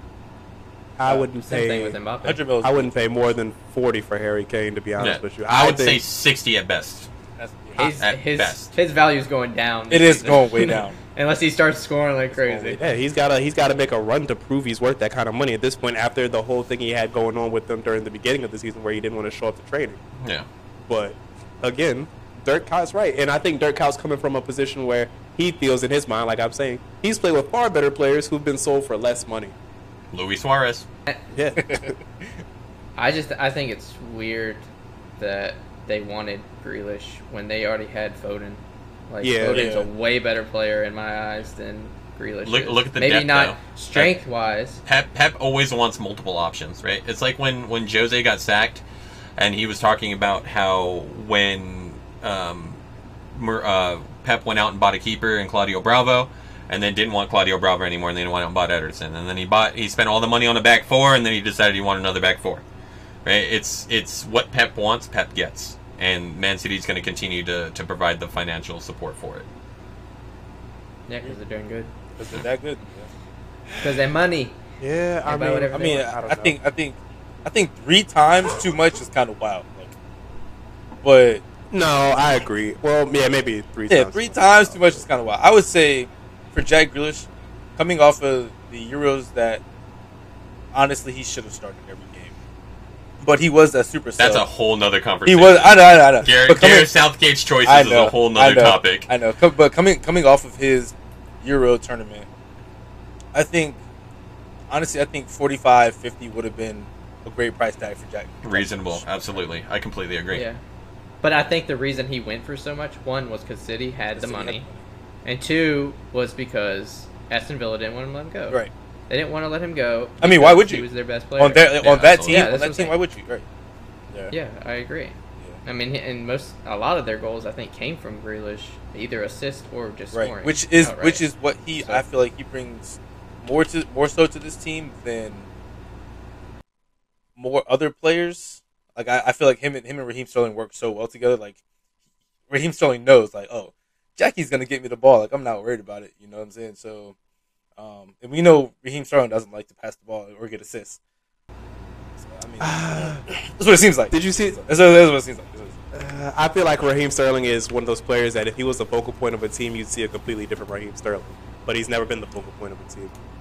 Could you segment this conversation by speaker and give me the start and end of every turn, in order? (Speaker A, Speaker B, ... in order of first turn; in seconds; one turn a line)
Speaker A: 1.0-1.9
Speaker B: 1.5-2.4
Speaker C: 2.2-2.9
Speaker A: 2.6-6.0
Speaker D: 5.0-7.1
Speaker C: 7.4-7.9
Speaker B: 7.8-12.8
Speaker D: 7.8-8.7
Speaker C: 9.9-11.0
Speaker A: 12.4-20.0
Speaker D: 20.2-20.5
Speaker A: 20.9-29.5
Speaker D: 30.1-30.9
Speaker A: 31.3-31.9
Speaker C: 31.6-32.0
Speaker B: 33.0-34.7
Speaker B: 35.2-44.8
Speaker A: 39.2-39.7
Speaker C: 39.5-39.9
Speaker D: 42.4-44.1
Speaker D: 44.9-48.8
Speaker D: 49.4-52.8
Speaker D: 53.3-62.6
Speaker D: 63.2-69.5
Speaker B: 71.1-71.9
Speaker C: 72.2-73.1
Speaker A: 73.7-74.0
Speaker B: 73.8-74.6
Speaker A: 74.8-76.6
Speaker B: 75.2-76.1
Speaker C: 75.7-79.9
Speaker C: 81.0-81.4
Speaker A: 81.7-85.0
Speaker C: 83.9-89.6
Speaker C: 90.7-92.3
Speaker C: 93.2-94.5
Speaker D: 94.2-99.1
Speaker C: 95.2-96.9
Speaker C: 97.6-102.3
Speaker C: 103.3-103.8
Speaker C: 104.7-109.5
Speaker D: 108.4-110.4
Speaker B: 110.3-110.6
Speaker B: 111.2-114.7
Speaker C: 114.1-114.8
Speaker B: 115.2-123.0
Speaker C: 120.2-123.4
Speaker D: 121.8-122.5
Speaker B: 124.3-131.2
Speaker C: 130.1-135.5
Speaker B: 131.8-132.0
Speaker C: 137.4-141.6
Speaker C: 142.5-147.1
Speaker C: 147.8-151.0
Speaker C: 152.2-155.7
Speaker A: 152.6-153.2
Speaker A: 154.1-154.6
Speaker A: 155.9-163.1